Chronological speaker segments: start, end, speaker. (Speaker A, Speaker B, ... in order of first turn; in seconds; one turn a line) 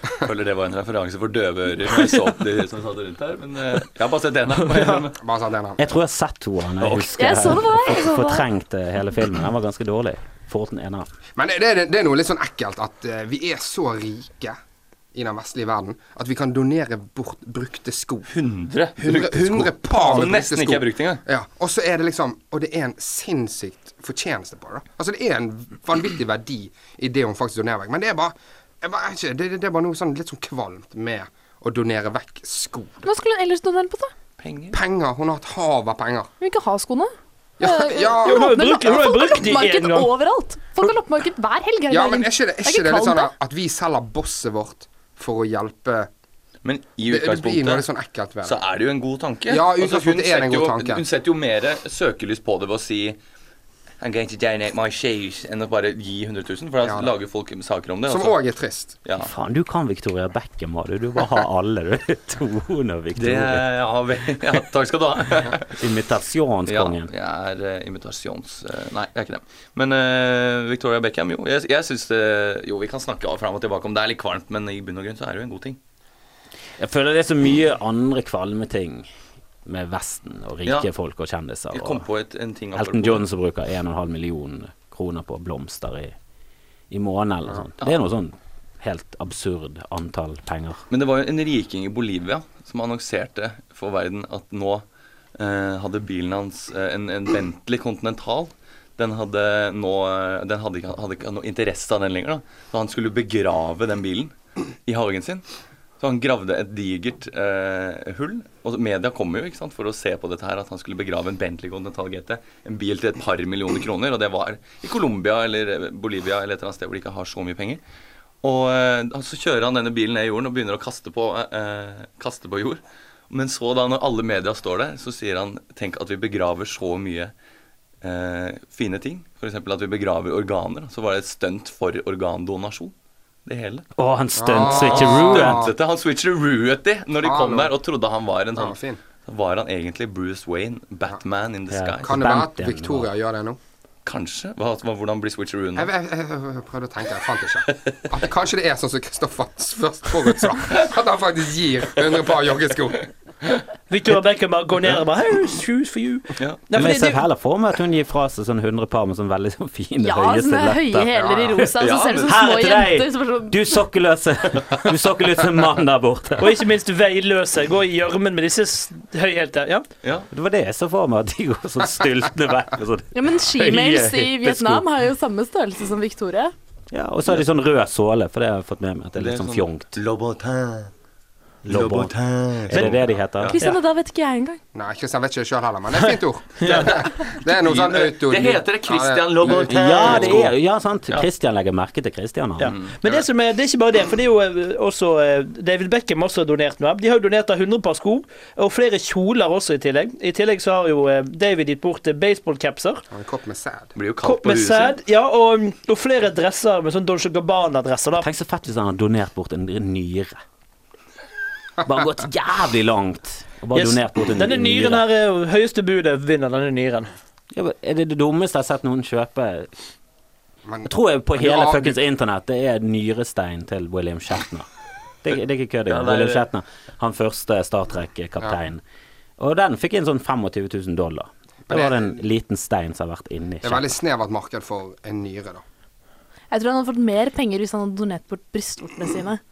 Speaker A: 0.2-5.2
Speaker B: 4.7-5.0
Speaker C: 5.2-5.8
Speaker D: 5.8-11.1
Speaker A: 6.8-7.1
Speaker E: 7.2-8.4
Speaker C: 11.4-14.6
Speaker C: 15.1-18.3
Speaker A: 18.3-21.2
Speaker C: 19.0-33.0
Speaker E: 33.0-34.1
Speaker A: 34.4-34.8
Speaker C: 34.7-36.3
Speaker E: 36.4-43.3
Speaker C: 37.6-38.9
Speaker B: 38.2-40.1
Speaker C: 41.9-46.1
Speaker A: 46.6-47.9
Speaker C: 47.1-48.6
Speaker A: 48.4-53.2
Speaker C: 49.5-51.0
Speaker A: 54.0-58.4
Speaker C: 56.8-57.1
Speaker C: 58.1-58.9
Speaker A: 59.0-59.3
Speaker D: 59.2-63.6
Speaker A: 63.1-65.8
Speaker D: 65.7-67.1
Speaker A: 66.7-75.8
Speaker D: 76.8-79.1
Speaker D: 79.6-82.0
Speaker A: 81.7-83.2
Speaker D: 82.7-86.1
Speaker D: 86.9-90.8
Speaker A: 90.9-94.8
Speaker A: 95.4-104.3
Speaker A: 104.8-105.4
Speaker A: 106.0-117.8
Speaker A: 118.4-127.3
Speaker A: 128.0-132.9
Speaker A: 133.4-133.8
Speaker D: 133.9-135.7
Speaker C: 134.4-135.7
Speaker A: 134.6-142.2
Speaker C: 137.2-137.7
Speaker C: 138.6-139.0
Speaker D: 141.7-143.1
Speaker C: 142.0-143.6
Speaker A: 144.0-145.9
Speaker C: 145.8-153.1
Speaker B: 153.9-157.2
Speaker A: 156.4-156.9
Speaker D: 156.7-161.7
Speaker E: 160.0-163.8
Speaker A: 161.8-162.4
Speaker D: 162.2-166.6
Speaker B: 166.4-169.8
Speaker A: 170.0-170.3
Speaker D: 170.3-174.8
Speaker E: 173.1-176.5
Speaker D: 176.9-179.9
Speaker A: 179.2-180.9
Speaker A: 181.6-183.6
Speaker D: 181.7-182.2
Speaker D: 182.7-183.6
Speaker E: 183.6-184.6
Speaker C: 184.7-190.4
Speaker B: 186.6-186.9
Speaker A: 186.6-190.5
Speaker D: 189.7-192.8
Speaker B: 192.6-203.0
Speaker A: 192.7-193.2
Speaker C: 203.1-203.9
Speaker A: 203.9-204.9
Speaker B: 204.2-208.3
Speaker D: 208.2-210.4
Speaker D: 211.8-215.0
Speaker B: 213.7-217.1
Speaker D: 217.5-219.7
Speaker C: 220.7-221.9
Speaker D: 220.8-224.7
Speaker D: 225.2-228.8
Speaker A: 225.9-226.5
Speaker D: 229.4-233.9
Speaker C: 231.7-232.2
Speaker C: 233.6-235.6
Speaker E: 236.5-239.4